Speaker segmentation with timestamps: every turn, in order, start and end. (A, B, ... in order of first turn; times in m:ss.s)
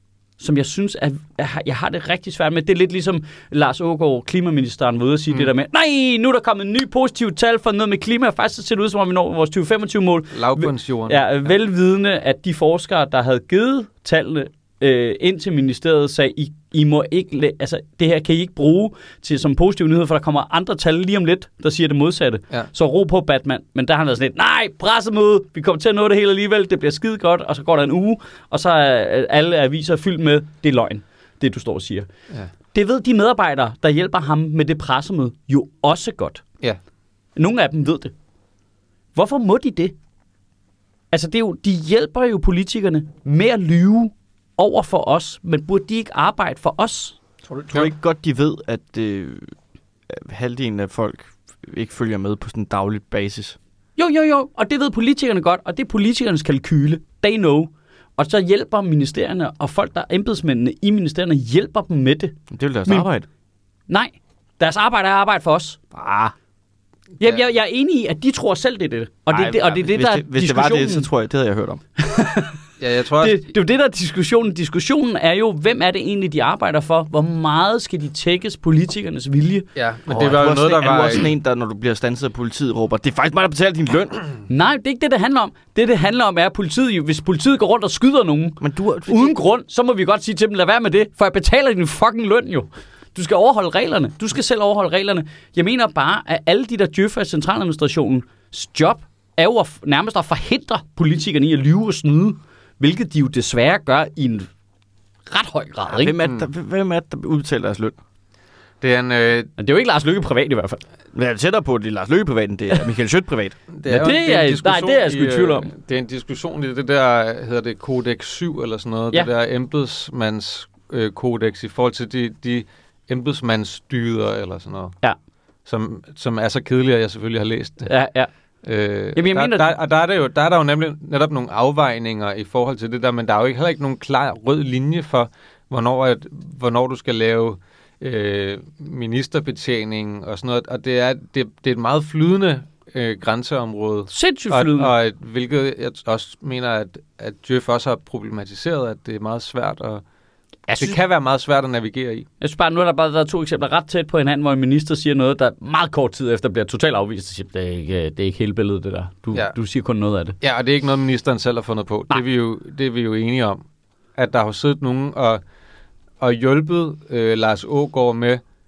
0:00.4-0:32.1 A
0:10.3-0:11.2 B
0:32.7-0:36.4 A
0:37.4-0:38.1 A
0:39.1-0:39.9 A
0:41.1-0:47.2 A
0:47.5-0:47.9 B
0:47.7-0:49.6 C
0:50.1-0:53.6 C
0:54.0-1:03.1 A
1:02.5-1:03.2 C
1:03.9-1:05.8 A
1:05.9-1:06.3 C
1:07.2-1:07.4 B
1:07.2-1:11.1 A
1:09.3-1:11.8 C
1:12.0-1:12.6 A
1:12.8-1:13.4 B
1:13.2-1:19.7 A
1:19.7-1:21.2 B
1:20.1-1:24.3 C
1:24.5-1:44.5 A
1:28.6-1:29.4 C
1:45.3-1:46.2 A
1:45.9-1:48.0 C
1:46.2-1:46.5 B
1:48.8-1:49.5 B
1:49.6-1:50.8 A
1:51.1-1:53.6 C
1:53.7-2:05.0 B
1:53.9-1:55.7 A
2:05.6-2:08.0 B
2:07.8-2:08.3 A
2:08.6-2:30.0 B
2:09.1-2:09.7 A
2:24.1-2:24.9 A
2:30.7-2:31.0 A
2:30.8-2:32.3 B
2:32.4-2:40.4 A
2:40.4-2:43.6 B
2:44.2-2:45.4 B
2:46.2-2:48.4 B